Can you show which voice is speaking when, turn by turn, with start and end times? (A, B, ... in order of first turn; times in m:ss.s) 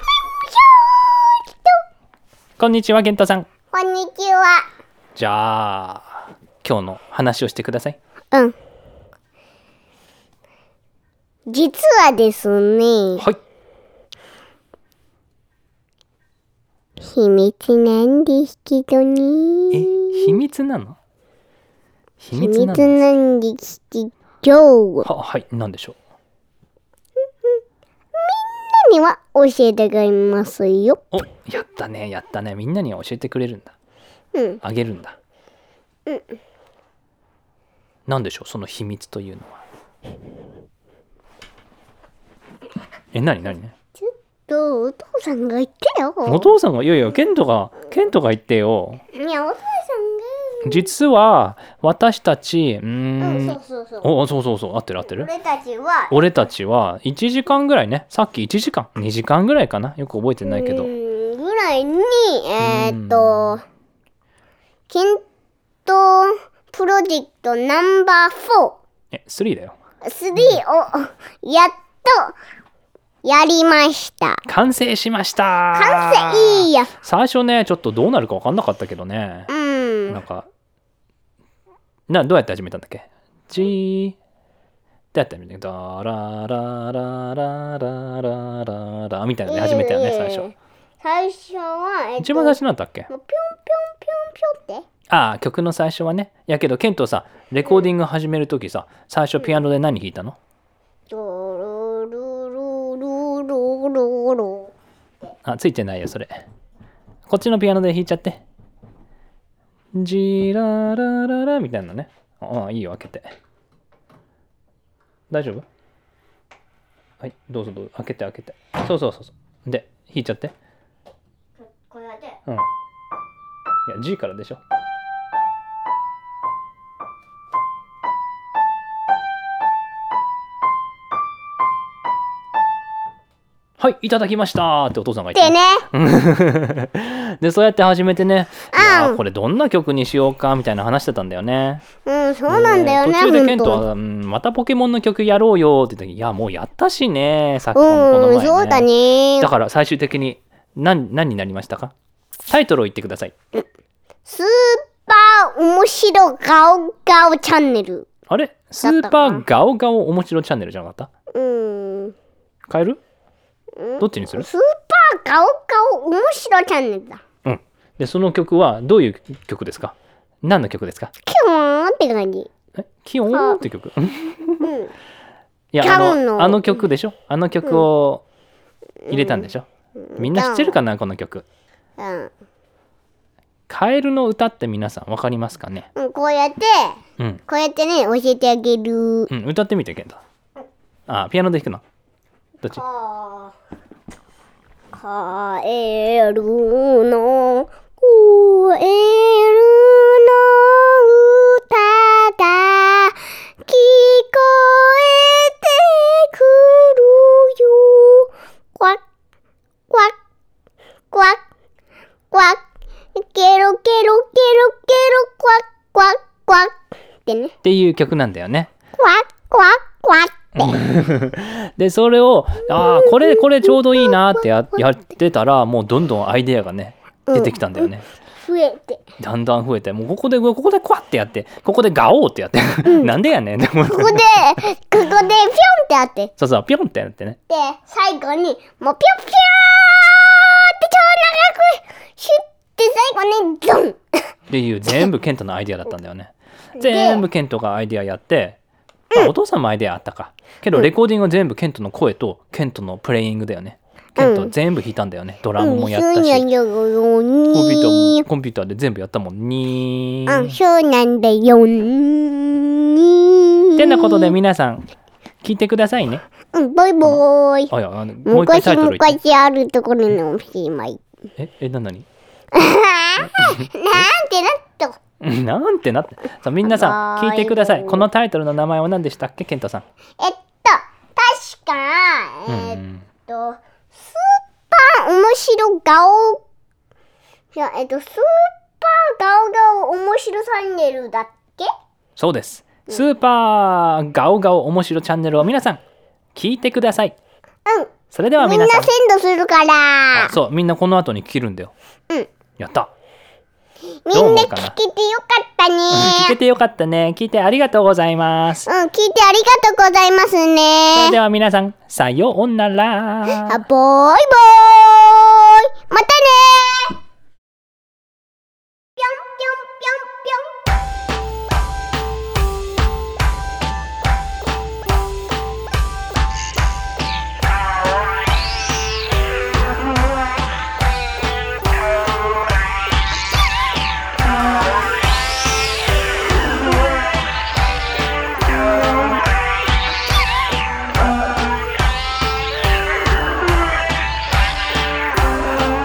0:00.3-0:01.8 A
0:02.6-0:03.5 B
0:03.7-0:04.6 A
0:05.2-0:08.0 B
0:11.5-0:13.2 A
0:17.0-0:20.3 A
0:19.7-0:21.0 B
0:22.2-0:23.1 B
0:22.3-0:25.1 A
0:25.0-0:26.0 B
0:28.1-0:31.0 A
0:31.1-0:33.7 B
0:34.3-0:34.6 A
0:34.6-0:35.2 B
0:36.0-0:36.4 A
0:38.0-0:39.6 B
0:43.1-0:43.7 B
0:44.0-0:46.5 A
0:46.2-0:49.0 B
0:49.1-0:50.9 A
0:50.6-0:55.3 B
0:53.2-0:54.1 A
0:55.0-0:56.1 A
0:56.1-1:00.9 B
1:00.4-1:03.6 A
1:02.6-1:03.6 B
1:04.9-1:05.2 A
1:05.8-1:08.8 A
1:09.1-1:09.8 B
1:10.0-1:12.3 A
1:13.2-1:14.4 A
1:14.5-1:19.5 B
1:15.7-1:16.9 A
1:19.5-1:20.2 A
1:20.1-1:20.5 B
1:22.1-1:24.2 B
1:25.1-1:30.5 B
1:29.5-1:32.6 A
1:32.2-1:33.1 B
1:33.1-1:34.8 A
1:35.1-1:40.4 B
1:41.1-1:44.7 A
1:45.4-1:46.4 B
1:47.3-1:48.4 B
1:49.9-1:53.3 B
1:55.3-1:55.6 B
1:57.2-2:00.5 B
2:01.6-2:02.4 A
2:03.8-2:04.6 B
2:13.8-2:21.8 B
2:15.3-2:15.8 A
2:18.7-2:19.2 A
2:22.0-2:23.8 A
2:22.5-2:31.9 B
2:27.7-2:29.5 A
2:32.5-2:33.3 B
2:34.2-2:38.1 A
2:38.3-2:41.1 B
2:38.8-2:39.4 A
2:41.3-2:42.1 A
2:42.7-2:43.0 B
2:43.8-2:47.2 A
2:44.0-2:44.5 B
2:47.4-2:51.1 B
2:51.2-2:52.5 A
2:52.7-2:54.7 B
2:53.3-2:53.6 A
2:54.6-2:54.9 A
2:55.7-2:58.2 B
2:55.8-2:56.8 A
2:59.0-3:00.8 A
2:59.1-2:59.6 B
3:00.2-3:01.4 B
3:02.0-3:02.3 A
3:03.7-3:05.9 B
3:06.0-3:09.3 A
3:09.3-3:10.2 B
3:11.1-3:11.8 B
3:12.7-3:13.5 A
3:15.0-3:29.0 A
3:29.9-3:30.1 A
3:31.1-3:31.4 A
3:32.3-3:32.6 A
3:33.1-3:36.7 A
3:37.2-3:37.5 A
3:37.6-3:38.7 B
3:39.0-3:40.8 A
3:40.6-3:48.1 B
3:42.6-3:44.2 A
3:47.3-3:49.0 A
3:49.2-3:54.3 B
3:52.8-3:53.1 A
3:53.9-3:56.3 A
3:56.4-3:57.4 B
3:57.5-4:04.2 A
4:04.5-4:08.6 B
4:06.8-4:07.2 A
4:09.1-4:16.4 B
4:14.2-4:14.5 A
4:15.6-4:18.2 A
4:17.5-4:20.6 B
4:20.3-4:24.3 A
4:23.8-4:24.9 B
4:25.4-4:26.2 B
4:26.5-4:27.7 A
4:27.0-4:29.2 B
4:28.2-4:31.0 A
4:31.4-4:32.0 B
4:32.5-4:35.0 A
4:33.2-4:34.0 B
4:35.2-4:39.8 B
4:36.6-4:38.0 A
4:40.2-4:46.4 A
4:42.5-4:43.0 B
4:47.5-4:51.7 A
4:52.2-4:55.8 B
4:56.3-4:57.1 B
4:57.6-5:00.3 A
4:58.1-4:58.9 B
5:00.1-5:01.7 B
5:02.6-5:02.9 B
5:04.0-5:06.4 A
5:04.1-5:04.7 B
5:05.9-5:08.7 B
5:08.7-5:11.2 A
5:10.9-5:13.6 B
5:13.5-5:17.0 A
5:19.0-5:20.5 A